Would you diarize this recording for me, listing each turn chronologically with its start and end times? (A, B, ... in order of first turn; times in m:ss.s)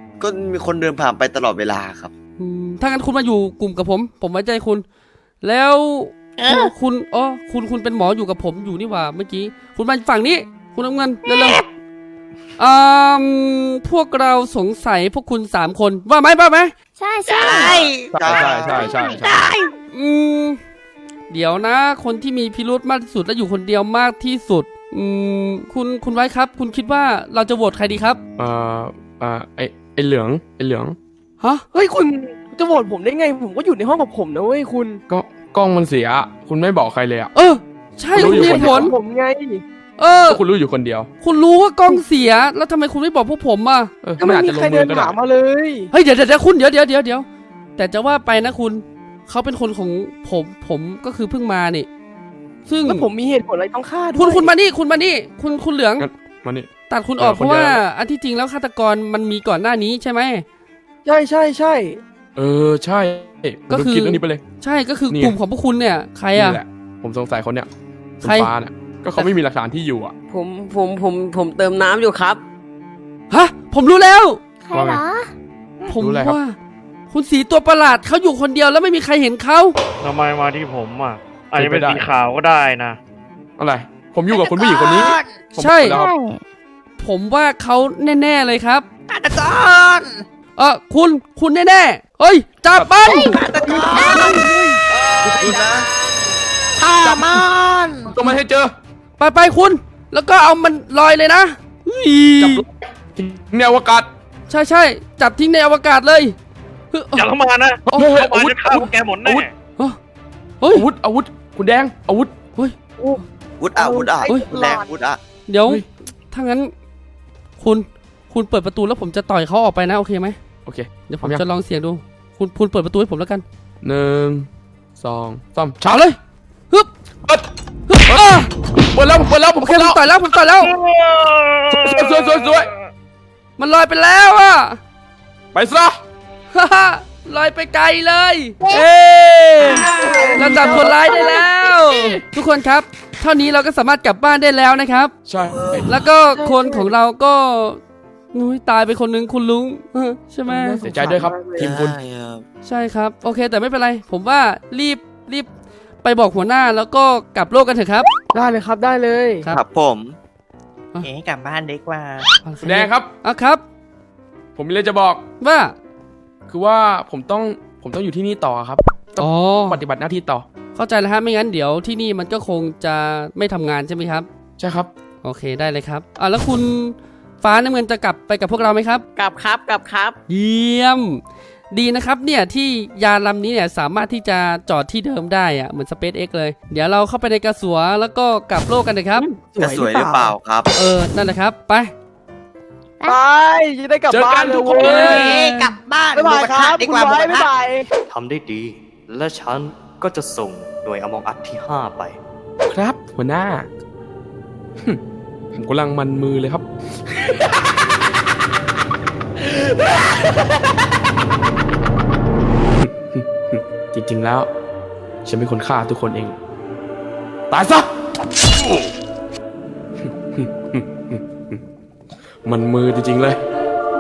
0:00.2-0:02.1 A
0:02.4-0:04.8 B
0:05.4-0:11.6 B
0:12.6-0:16.7 B
0:17.0-0:17.9 C
0:17.3-0:19.7 D
0:18.1-0:19.2 E
0:18.2-0:18.9 A
0:18.7-0:19.2 C
0:19.9-0:20.6 B
0:21.3-0:28.2 B
0:28.4-0:31.0 E
0:31.7-0:35.0 F
0:35.1-0:37.3 E
0:37.3-0:38.9 B
0:38.1-0:39.6 F
0:38.2-0:38.9 E
0:40.0-0:40.4 B
0:40.3-0:41.1 E
0:41.2-0:43.9 B
0:44.0-0:45.2 E
0:44.2-0:45.9 F
0:45.9-0:51.9 B
0:52.7-0:53.1 B
0:52.8-0:54.5 F
0:54.2-0:56.1 B
0:56.0-0:57.8 E
0:56.9-1:00.4 B
1:01.0-1:02.0 F
1:02.4-1:04.4 E
1:03.7-1:06.6 B
1:05.1-1:05.4 E
1:06.3-1:07.7 E
1:08.2-1:08.5 B
1:08.2-1:10.1 E
1:10.3-1:12.4 G
1:13.3-1:14.4 B
1:14.6-1:15.3 C
1:14.7-1:15.0 E
1:15.9-1:16.6 B
1:16.0-1:16.4 E
1:17.1-1:19.8 B
1:20.0-1:23.0 H
1:21.5-1:22.1 E
1:23.6-1:26.1 E
1:24.3-1:25.3 D
1:25.6-1:26.0 B
1:25.9-1:26.4 C
1:27.0-1:28.9 B
1:29.1-1:30.2 D
1:30.6-1:33.4 B
1:33.1-1:34.5 D
1:33.5-1:34.8 F
1:35.2-1:35.9 D
1:35.2-1:35.6 E
1:35.3-1:35.8 A
1:36.8-1:38.2 D
1:37.0-1:37.5 E
1:38.1-1:38.8 E
1:39.2-1:42.6 B
1:42.4-1:44.1 E
1:44.5-1:46.4 B
1:46.9-1:47.3 B
1:47.2-1:49.5 H
1:47.9-1:49.5 E
1:50.7-1:52.3 E
1:53.6-1:55.2 A
1:53.8-1:54.9 F
1:55.5-1:56.7 B
1:57.6-2:00.4 B
2:00.7-2:01.4 E
2:01.1-2:03.4 B
2:03.8-2:06.0 E
2:05.8-2:06.2 B
2:07.9-2:08.5 B
2:08.1-2:10.0 E
2:09.6-2:10.7 B
2:10.8-2:12.8 H
2:11.7-2:12.7 E
2:13.6-2:14.8 B
2:15.5-2:16.0 E
2:16.5-2:25.1 B
2:19.6-2:22.2 F
2:25.3-2:26.0 E
2:25.8-2:27.8 B
2:26.3-2:26.9 F
2:28.3-2:30.8 B
2:30.5-2:31.8 F
2:30.8-2:32.0 E
2:31.6-2:32.4 A
2:32.6-2:35.5 B
2:36.0-2:38.1 B
2:38.3-2:39.5 F
2:39.5-2:40.2 A
2:41.0-2:42.3 D
2:42.4-2:43.6 B
2:42.6-2:43.1 E
2:44.6-2:45.2 E
2:45.4-2:45.7 B
2:46.5-2:50.5 E
2:49.2-2:49.8 B
2:50.8-2:54.3 B
2:54.6-2:54.9 E
2:55.2-2:59.0 B
2:59.2-3:00.2 G
3:00.3-3:09.3 B
3:09.2-3:10.4 F
3:09.6-3:10.7 A
3:10.8-3:11.9 B
3:13.1-3:17.9 F
3:14.1-3:15.4 E
3:14.7-3:17.5 D
3:18.1-3:22.2 I
3:22.7-3:23.7 E
3:25.5-3:26.7 E
3:32.8-3:34.5 E
3:35.2-3:36.4 E
3:37.5-3:37.9 E
3:40.0-3:41.6 E
3:42.4-3:43.4 E